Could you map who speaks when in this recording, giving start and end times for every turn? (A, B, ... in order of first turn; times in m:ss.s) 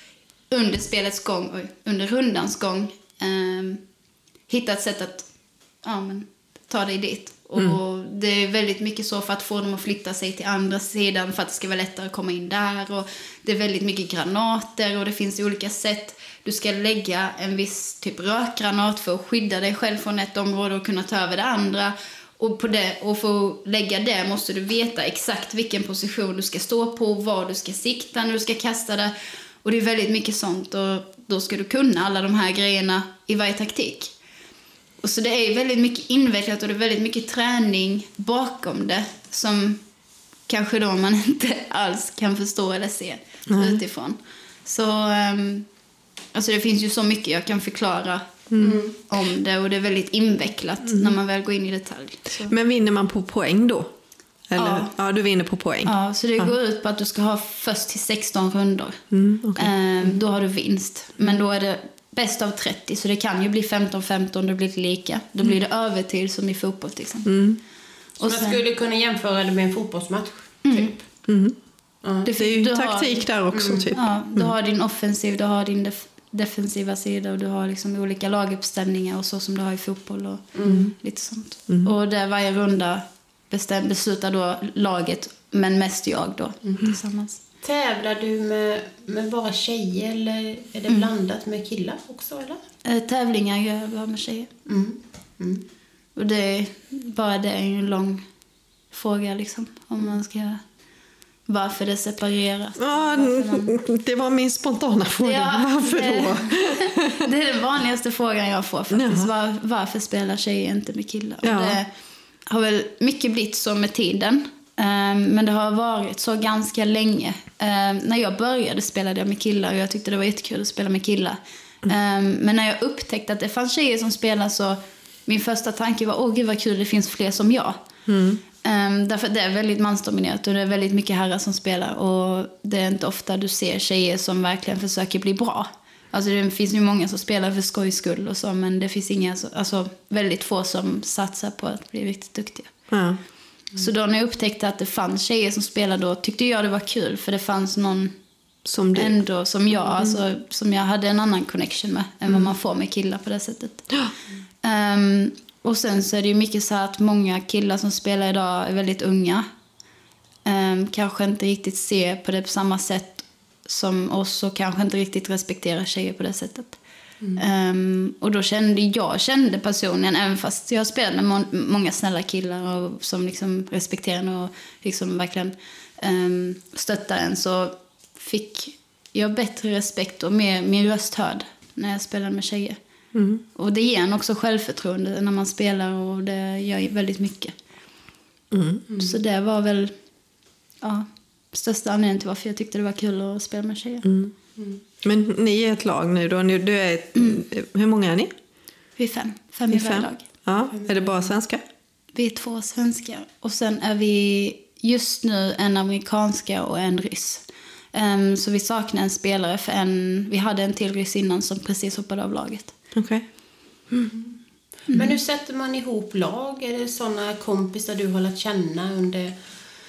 0:00.5-0:03.8 A
0:04.5-0:05.3 A
0:05.8-0:34.1 A
0:35.0-0:39.8 A
0:40.5-0:45.7 A
0:43.5-0:43.8 B
0:46.3-0:52.5 A
0:48.5-0:48.8 B
0:48.6-0:49.0 C
0:50.8-0:51.1 B
0:52.5-0:53.9 B
0:54.5-0:56.5 B
0:54.6-0:54.9 A
0:55.9-0:59.0 A
0:59.1-0:59.7 B
0:59.6-1:07.3 A
1:07.3-1:07.6 B
1:08.2-1:11.1 C
1:08.2-1:08.6 A
1:10.6-1:10.9 A
1:11.3-1:11.6 B
1:12.2-1:13.3 A
1:12.3-1:14.5 B
1:13.5-1:13.9 C
1:13.9-1:27.4 A
1:20.6-1:20.9 C
1:27.6-1:32.6 C
1:32.8-1:34.5 A
1:34.7-1:35.6 C
1:36.2-1:38.2 A
1:38.9-1:40.6 A
1:41.5-1:43.8 A
1:42.8-1:47.1 B
1:45.2-1:51.9 A
1:48.9-1:49.3 B
1:51.4-1:51.8 B
1:52.5-2:07.8 A
2:08.1-2:08.4 B
2:08.6-2:22.7 A
2:22.9-2:23.2 B
2:23.8-2:28.1 A
2:28.7-2:29.2 B
2:28.9-2:33.9 A
2:34.6-2:39.5 A
2:40.4-2:46.8 A
2:47.4-3:02.8 A
3:03.1-3:03.4 B
3:03.6-3:07.6 A
3:08.5-3:08.9 B
3:08.9-3:09.2 C
3:09.0-3:09.9 A
3:10.8-3:14.1 A
3:14.0-3:14.3 B
3:15.0-3:18.3 B
3:19.0-3:20.2 A
3:19.7-3:21.6 B
3:20.7-3:21.3 C
3:22.2-3:32.8 A
3:32.9-3:33.3 B
3:34.9-3:39.4 C